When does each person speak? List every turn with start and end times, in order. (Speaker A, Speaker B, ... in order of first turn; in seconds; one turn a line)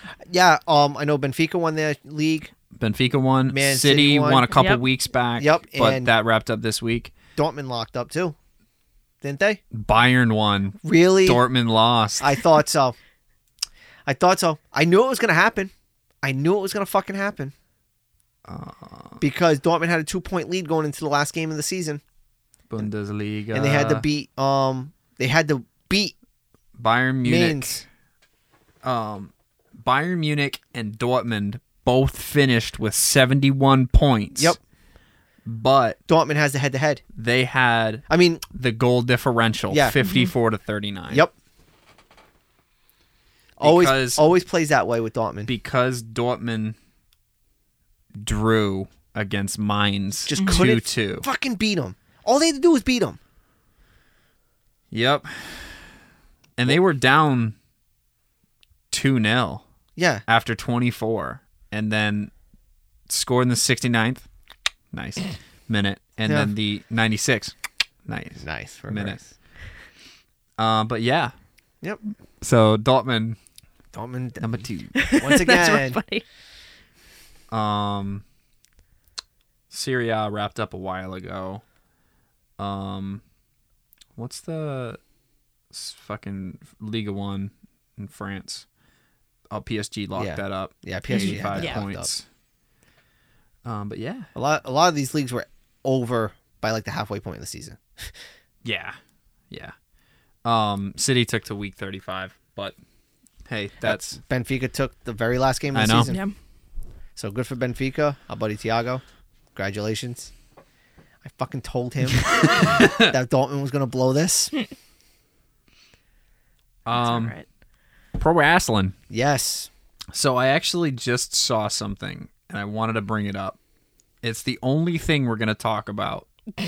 Speaker A: 0.3-2.5
Speaker B: 2.7-7.1
Speaker A: 3.5-4.5
Speaker C: 4.5-4.8
Speaker A: 5.4-6.1
Speaker A: 7.4-8.3
Speaker A: 9.2-9.6
Speaker B: 9.7-12.4
Speaker A: 10.8-11.4
Speaker A: 12.2-13.0
Speaker A: 14.1-15.7
Speaker A: 16.2-17.5
Speaker B: 18.5-19.2
Speaker A: 19.2-22.0
Speaker B: 22.7-24.1
Speaker A: 23.5-26.1
Speaker B: 26.8-27.9
Speaker A: 27.2-27.9
Speaker B: 28.8-34.6
Speaker A: 34.4-34.6
Speaker B: 35.5-36.0
Speaker A: 36.1-37.0
Speaker B: 37.1-41.2
Speaker A: 38.1-38.4
Speaker A: 39.7-40.0
Speaker C: 40.0-40.3
Speaker B: 43.6-44.2
Speaker A: 43.6-45.5
Speaker B: 45.5-46.8
Speaker B: 48.2-51.2
Speaker A: 50.3-53.2
Speaker B: 54.9-55.8
Speaker B: 56.6-57.6
Speaker B: 58.9-59.6
Speaker A: 60.0-60.2
Speaker B: 60.3-62.3
Speaker B: 63.1-64.3
Speaker B: 64.9-67.5
Speaker A: 66.2-66.5
Speaker B: 68.1-69.2
Speaker A: 68.4-69.3
Speaker B: 70.6-71.3
Speaker B: 72.4-73.4
Speaker A: 73.9-76.0
Speaker B: 74.4-74.9
Speaker C: 75.0-76.2
Speaker B: 77.5-78.2
Speaker B: 79.7-81.6
Speaker B: 82.6-83.2
Speaker B: 84.2-85.0
Speaker B: 85.7-88.7
Speaker B: 89.5-92.2
Speaker A: 90.2-92.1
Speaker C: 91.1-91.8
Speaker B: 93.6-94.3
Speaker A: 94.3-98.1
Speaker B: 98.6-99.0
Speaker B: 99.5-99.8
Speaker B: 100.4-102.8
Speaker B: 103.5-104.2
Speaker A: 103.8-106.2
Speaker B: 105.7-106.1
Speaker C: 106.1-106.3
Speaker A: 107.2-109.0
Speaker A: 109.5-110.3
Speaker A: 111.2-114.5
Speaker B: 112.2-113.1
Speaker B: 116.9-117.4
Speaker C: 116.9-117.5
Speaker B: 118.2-119.0
Speaker A: 119.1-119.7
Speaker B: 120.1-123.6
Speaker B: 124.2-126.3